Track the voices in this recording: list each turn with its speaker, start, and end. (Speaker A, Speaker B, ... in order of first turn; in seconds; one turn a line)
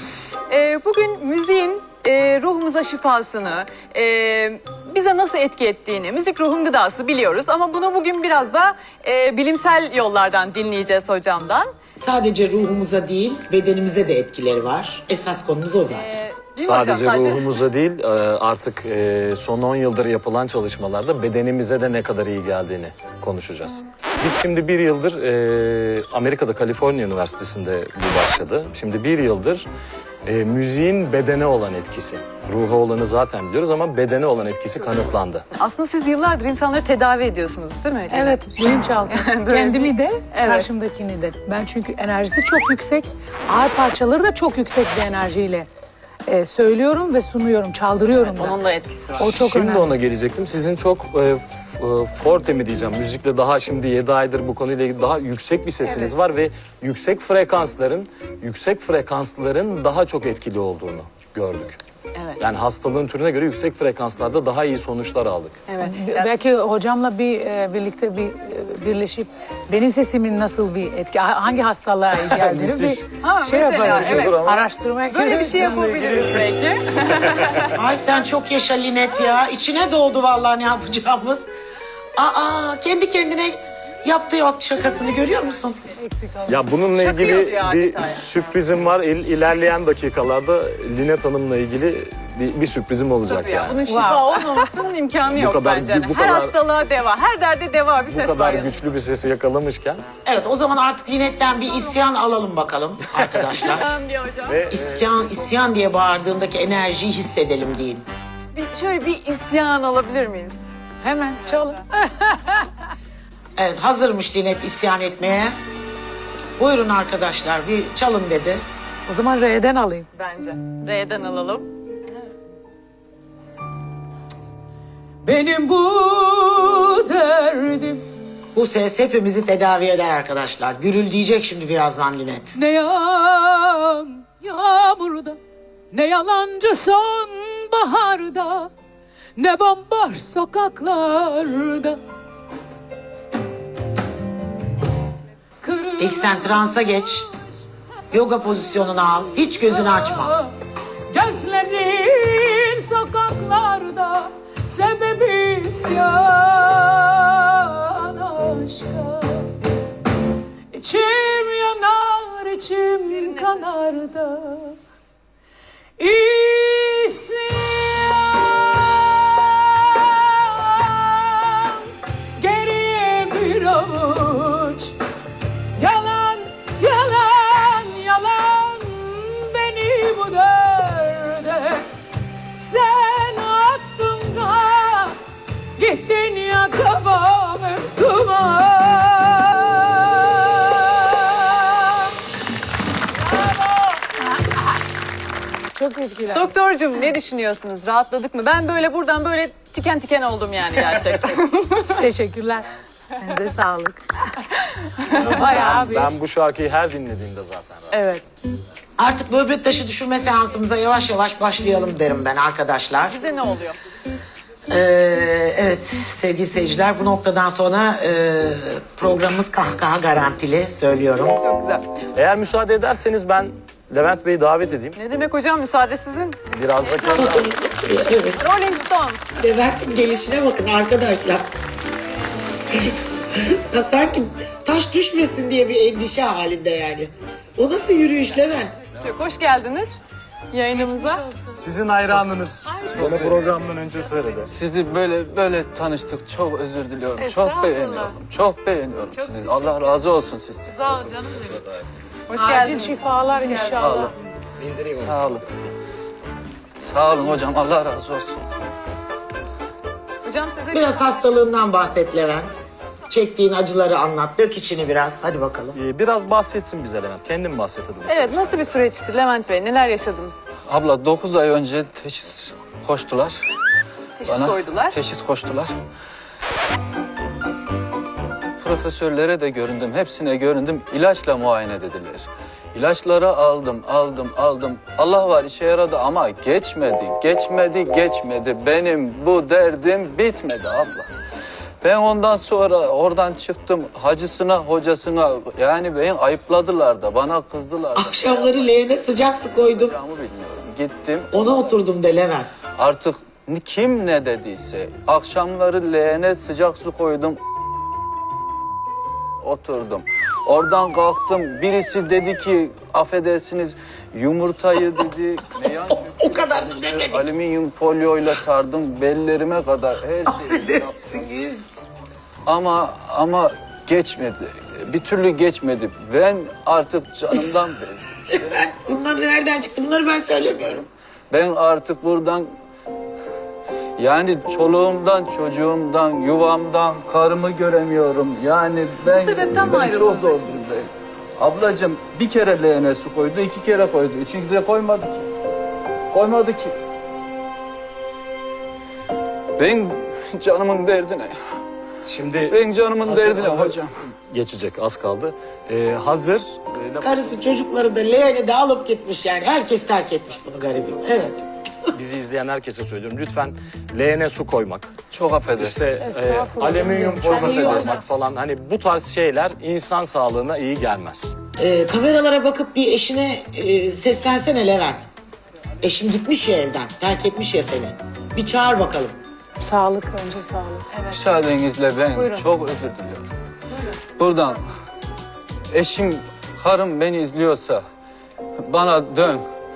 Speaker A: 0.5-11.7
Speaker B: 12.0-16.2
Speaker A: 15.9-17.5
Speaker C: 16.6-29.7
Speaker C: 30.2-35.5
Speaker A: 35.5-40.7
Speaker D: 38.1-45.7
Speaker D: 46.3-48.6
Speaker A: 48.2-49.3
Speaker D: 49.2-50.0
Speaker C: 49.2-61.8
Speaker C: 62.4-65.6
Speaker A: 65.7-66.3
Speaker D: 65.8-76.1
Speaker C: 72.2-73.0
Speaker A: 73.2-74.4
Speaker C: 73.8-74.7
Speaker A: 75.1-77.7
Speaker C: 75.6-76.2
Speaker B: 77.7-81.5
Speaker B: 82.2-85.8
Speaker D: 86.0-86.7
Speaker C: 86.5-93.9
Speaker A: 87.0-88.2
Speaker A: 93.3-98.8
Speaker D: 93.8-94.7
Speaker C: 95.3-96.6
Speaker C: 98.1-100.0
Speaker B: 100.2-104.0
Speaker C: 103.2-103.7
Speaker A: 103.7-104.6
Speaker C: 104.5-105.1
Speaker B: 104.7-108.0
Speaker A: 108.5-110.6
Speaker D: 111.0-112.7
Speaker A: 111.5-111.8
Speaker B: 113.6-115.5
Speaker B: 116.6-118.6
Speaker D: 119.1-120.1
Speaker A: 120.1-121.7
Speaker D: 125.2-128.0
Speaker B: 128.6-132.6
Speaker D: 132.6-135.4
Speaker D: 135.9-138.7
Speaker D: 139.4-142.0
Speaker D: 145.6-146.7
Speaker B: 146.0-147.3
Speaker B: 148.1-150.3
Speaker D: 149.6-150.5
Speaker D: 151.1-159.5
Speaker D: 160.7-164.8
Speaker A: 163.1-163.6
Speaker D: 166.0-171.8
Speaker D: 172.4-174.9
Speaker D: 175.8-181.9
Speaker D: 182.6-185.2
Speaker D: 185.8-192.0
Speaker D: 195.8-196.5
Speaker A: 196.3-202.0
Speaker D: 202.0-202.7
Speaker D: 203.2-204.0
Speaker D: 205.1-206.1
Speaker C: 205.1-208.0
Speaker A: 207.9-208.2
Speaker B: 209.0-213.2
Speaker A: 213.0-213.8
Speaker B: 214.7-221.4
Speaker A: 221.4-222.0
Speaker C: 222.2-225.0
Speaker A: 224.9-227.4
Speaker C: 226.5-227.5
Speaker B: 227.1-228.4
Speaker A: 228.4-229.3
Speaker B: 229.4-231.5
Speaker B: 232.7-238.9
Speaker A: 238.9-240.0
Speaker A: 240.5-241.2
Speaker D: 240.7-241.6
Speaker C: 241.6-244.5
Speaker D: 242.6-244.4
Speaker E: 242.9-243.5
Speaker E: 244.5-250.8
Speaker D: 247.2-248.2
Speaker D: 249.1-249.9
Speaker D: 250.7-251.7
Speaker A: 252.3-253.8
Speaker D: 252.3-254.1
Speaker E: 253.8-254.1
Speaker C: 254.6-255.7
Speaker E: 254.8-255.4
Speaker E: 256.8-258.4
Speaker A: 260.2-261.1
Speaker B: 260.7-262.6
Speaker B: 263.1-265.8
Speaker C: 265.7-268.8
Speaker A: 268.1-270.4
Speaker E: 270.6-273.4
Speaker A: 274.2-275.0
Speaker E: 274.2-275.8
Speaker E: 278.6-291.1
Speaker E: 291.8-298.9
Speaker B: 298.0-300.0
Speaker E: 299.6-301.7
Speaker B: 301.3-302.5
Speaker E: 302.8-307.4
Speaker E: 309.4-320.9
Speaker B: 315.7-317.3
Speaker B: 320.3-321.8
Speaker E: 322.5-328.6
Speaker B: 328.3-330.9
Speaker E: 331.3-332.5
Speaker E: 334.0-345.3
Speaker A: 339.1-340.6
Speaker E: 346.1-346.8
Speaker E: 349.6-351.4
Speaker C: 352.1-357.3
Speaker E: 352.5-353.9
Speaker B: 357.0-361.9
Speaker C: 361.9-364.9
Speaker E: 365.1-365.9
Speaker C: 365.6-371.4
Speaker D: 366.0-368.1
Speaker E: 367.2-368.0
Speaker B: 371.6-375.1
Speaker B: 375.8-379.2
Speaker D: 379.6-380.9
Speaker E: 381.1-383.3
Speaker E: 384.2-384.6
Speaker E: 385.7-387.8
Speaker E: 388.6-389.5